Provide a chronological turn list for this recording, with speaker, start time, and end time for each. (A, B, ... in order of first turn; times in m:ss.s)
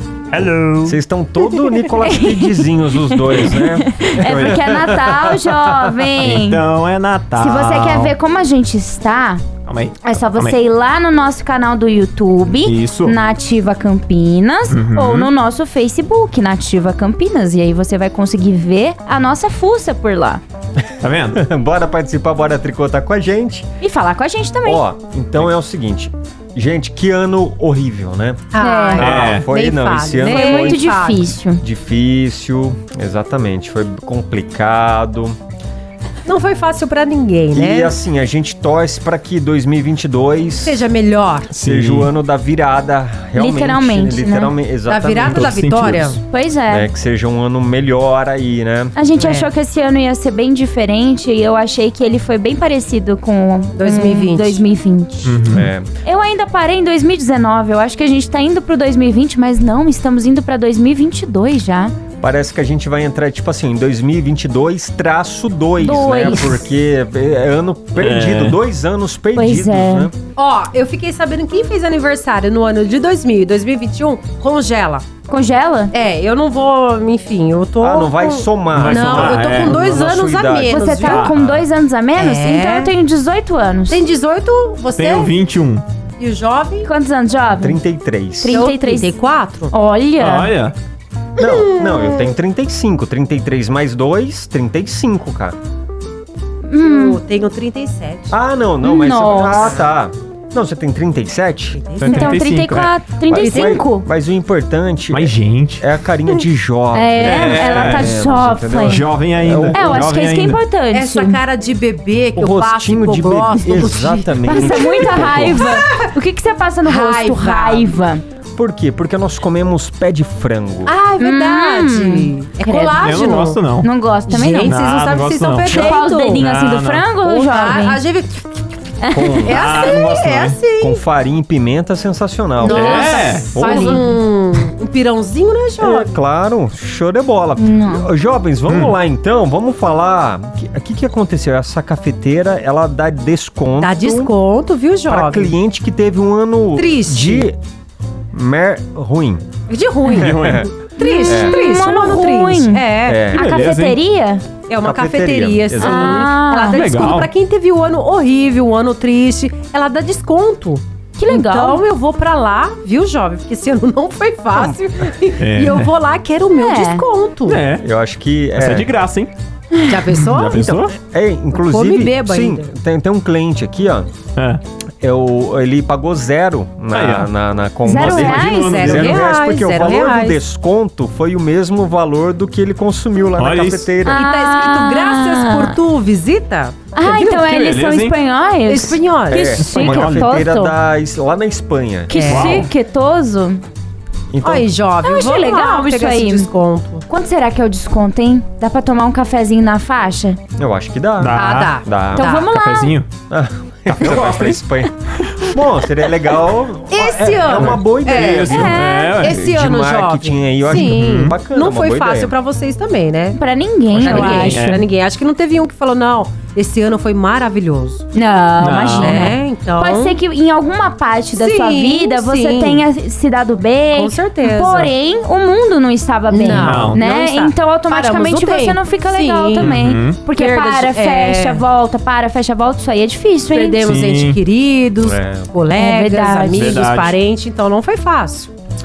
0:00.3-0:01.0 A
0:00.8-0:05.8 B
0:02.0-0:06.6 C
0:04.2-0:05.2 A
0:06.2-0:08.2 A
0:07.4-0:09.5 C
0:09.6-0:10.6 A
0:10.0-0:20.4 C
0:12.6-0:13.2 A
0:14.7-0:15.3 A
0:21.0-0:21.4 A
0:21.3-0:23.7 B
0:23.8-0:24.8 C
0:24.6-0:35.4 B
0:28.5-0:31.3 D
0:28.6-0:29.0 C
0:29.0-0:29.5 A
0:30.3-0:31.6 C
0:36.2-0:38.0 D
0:37.5-0:40.8 B
0:40.6-0:41.5 D
0:41.5-0:42.1 A
0:41.5-0:45.6 B
0:43.3-0:44.5 C
0:44.9-0:46.2 D
0:45.2-0:46.2 A
0:46.3-0:46.9 C
0:46.7-0:49.0 B
0:48.9-1:01.9 C
0:49.2-0:49.5 D
0:53.8-0:54.6 D
0:55.2-0:55.7 A
0:55.5-0:55.9 B
1:02.2-1:10.1 B
1:05.8-1:06.6 C
1:08.0-1:08.6 A
1:09.3-1:10.1 C
1:10.4-1:15.0 D
1:15.3-1:15.9 C
1:15.9-1:21.3 D
1:17.8-1:20.8 B
1:18.7-1:19.8 A
1:20.6-1:24.0 C
1:21.0-1:21.6 A
1:22.2-1:22.9 D
1:23.9-1:25.4 D
1:24.9-1:25.8 A
1:26.2-1:26.9 D
1:26.8-1:27.8 C
1:27.6-1:28.6 B
1:28.4-1:29.2 C
1:28.5-1:29.7 D
1:29.7-1:30.5 C
1:30.2-1:30.8 A
1:31.4-1:35.6 B
1:31.4-1:32.3 D
1:36.7-1:37.2 C
1:36.8-1:38.3 D
1:38.3-1:41.8 B
1:38.8-1:39.8 C
1:41.8-1:42.4 D
1:42.0-1:43.0 A
1:42.0-1:44.1 C
1:43.2-1:50.0 B
1:43.3-1:43.8 D
1:45.1-1:45.9 A
1:46.9-1:49.0 C
1:47.2-1:48.2 A
1:48.8-1:50.6 A
1:49.7-1:51.4 C
1:50.9-1:56.1 D
1:52.4-1:55.8 B
1:54.4-1:58.2 C
1:56.8-1:57.9 D
1:58.6-2:00.9 B
2:00.8-2:03.6 D
2:01.2-2:03.0 C
2:02.9-2:03.9 A
2:03.8-2:04.8 C
2:04.3-2:06.4 D
2:04.5-2:07.1 A
2:05.6-2:08.0 C
2:07.2-2:08.5 D
2:09.0-2:09.5 C
2:09.1-2:09.7 B
2:09.4-2:10.6 A
2:09.4-2:11.0 D
2:10.8-2:14.0 B
2:12.6-2:16.1 D
2:12.6-2:13.5 A
2:13.2-2:14.0 C
2:15.8-2:24.3 B
2:17.6-2:18.1 C
2:18.7-2:18.9 A
2:23.8-2:25.6 D
2:25.1-2:27.6 B
2:26.8-2:27.5 D
2:28.3-2:29.4 B
2:29.7-2:33.2 D
2:30.1-2:30.7 A
2:30.2-2:30.7 B
2:31.0-2:34.4 C
2:31.2-2:31.6 B
2:33.1-2:33.4 B
2:33.3-2:34.0 A
2:34.7-2:47.6 D
2:34.8-2:36.3 B
2:35.8-2:36.8 C
2:36.6-2:37.3 A
2:41.2-2:41.8 C
2:44.5-2:44.8 B
2:45.4-2:45.9 A
2:46.5-2:47.0 C
2:47.5-2:47.8 A
2:47.8-2:48.9 B
2:48.5-2:49.3 A
2:49.8-2:50.7 D
2:50.1-2:51.0 A
2:50.5-2:54.1 B
2:51.5-2:52.7 D
2:54.4-2:54.6 A
2:55.0-3:04.2 B
2:56.9-2:57.3 A
2:57.8-2:59.1 C
2:57.9-2:59.2 A
2:58.3-3:00.4 D
3:03.4-3:03.9 A
3:04.0-3:07.5 D
3:04.1-3:05.8 C
3:06.9-3:10.8 C
3:07.4-3:08.2 A
3:08.7-3:09.6 D
3:09.3-3:12.1 B
3:09.6-3:10.4 A
3:12.1-3:12.6 D
3:12.1-3:13.6 C
3:12.2-3:12.7 A
3:14.3-3:14.7 B
3:14.4-3:17.0 D
3:15.0-3:16.5 C
3:17.1-3:20.4 C
3:20.6-3:22.2 B
3:21.2-3:23.1 A
3:21.3-3:22.5 D
3:22.2-3:23.0 C
3:23.3-3:32.3 B
3:23.9-3:24.6 A
3:26.9-3:33.4 D
3:28.1-3:29.4 A
3:28.4-3:29.2 C
3:30.7-3:31.4 A
3:33.3-3:34.8 C
3:33.9-3:34.8 A
3:34.0-3:38.1 D
3:38.1-3:53.8 C
3:38.6-3:39.4 A
3:39.0-3:40.2 D
3:41.3-3:42.8 D
3:43.9-3:44.9 D
3:46.3-3:51.6 D
3:46.4-3:47.0 A
3:49.6-3:50.2 A
3:53.5-3:58.5 D
3:53.8-3:54.4 A
3:55.0-3:55.5 B
3:55.7-3:56.8 C
3:56.5-3:57.2 A